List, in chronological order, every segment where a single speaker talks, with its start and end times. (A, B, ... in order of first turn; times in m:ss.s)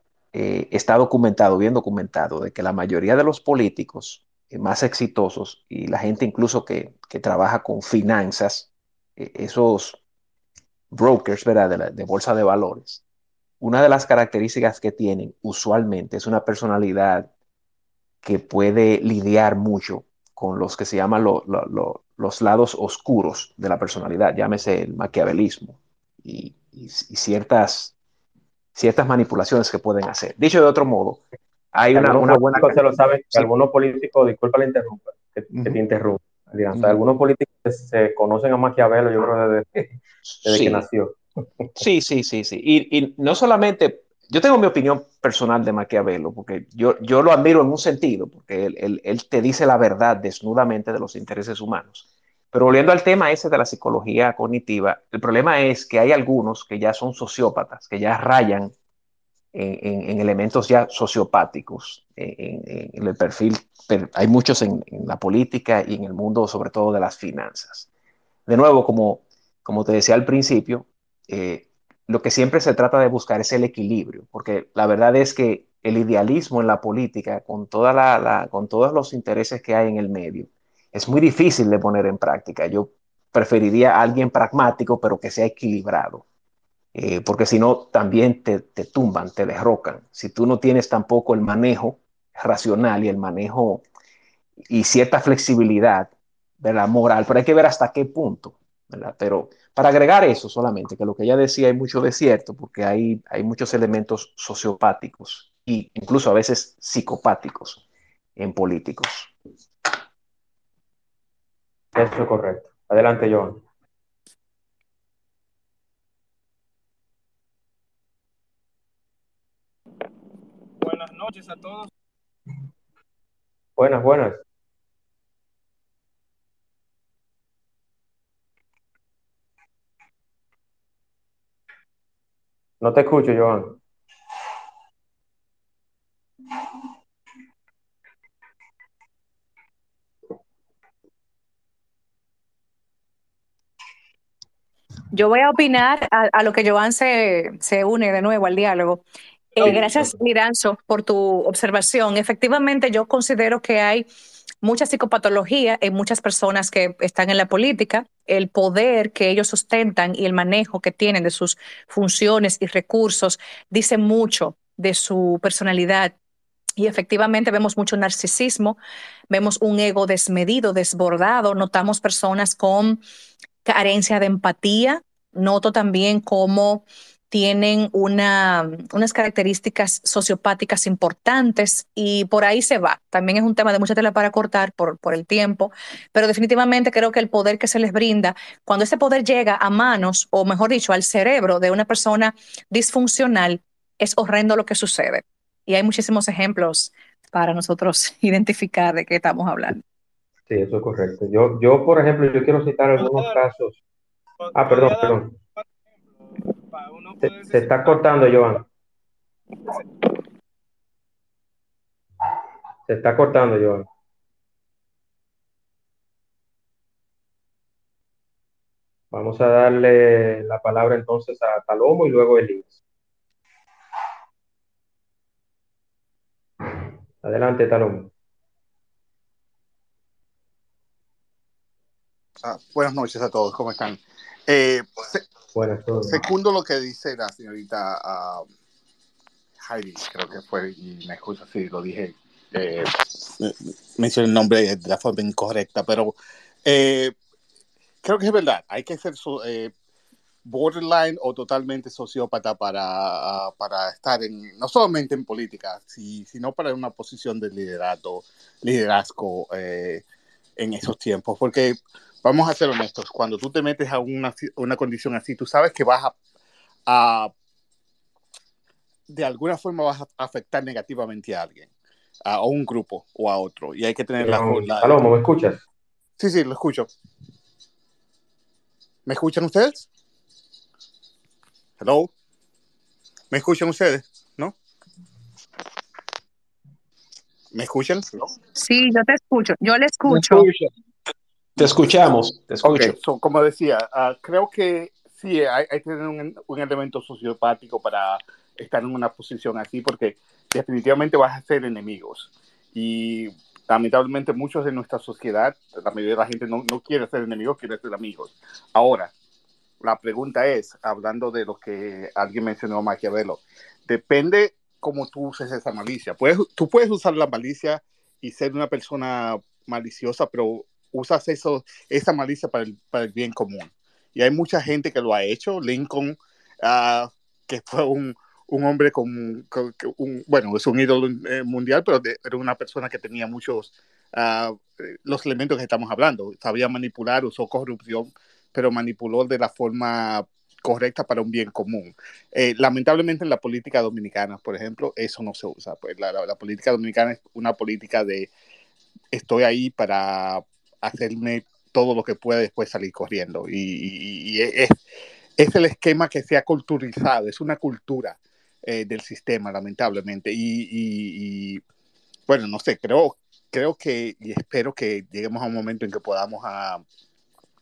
0:00.3-0:10.0 A
0:10.9-0:13.0 A
0:13.6-0:17.3 A
0:18.2-0:27.9 A
0:28.8-0:33.5 A
0:31.9-0:41.2 B
0:35.5-0:35.8 A
0:36.7-0:37.0 A
0:40.3-0:40.8 A
0:41.8-0:58.7 A
0:59.5-1:07.9 A
1:08.5-1:26.2 A
1:26.9-1:33.8 A
1:34.6-1:47.8 A
1:48.4-1:49.3 A
1:52.0-1:53.6 B
2:00.8-2:01.9 C
2:03.8-2:04.4 B
2:12.8-2:13.8 B
2:25.1-2:29.0 D
2:29.6-2:34.1 D
2:29.6-2:30.0 B
2:34.6-2:46.2 D
2:46.8-2:48.8 D
2:49.3-2:53.0 D
2:53.6-3:19.8 D
3:20.5-3:23.8 B
3:23.0-3:23.4 C
3:24.4-3:28.1 C
3:24.6-3:25.3 B
3:27.2-3:28.6 B
3:32.9-3:33.9 B
3:39.1-3:42.8 B
3:47.2-3:48.1 B
3:52.4-3:55.2 E
3:55.5-3:56.3 B
3:56.1-3:58.5 E
3:59.7-4:07.2 E
4:08.0-4:09.7 E
4:10.4-4:20.0 E
4:20.6-4:26.2 E
4:26.9-4:27.3 E
4:29.1-4:31.7 E
4:32.3-4:35.0 E
4:34.2-4:35.6 B
4:36.2-4:36.9 E
4:39.1-4:39.9 E
4:41.8-4:42.1 E
4:43.3-4:44.6 E
4:47.5-4:48.3 E
4:48.6-4:50.5 D
4:51.6-4:53.0 A
4:53.0-5:09.1 E
5:09.8-5:48.3 E
5:49.1-5:54.8 E
5:55.4-6:01.6 E
6:02.3-6:06.8 E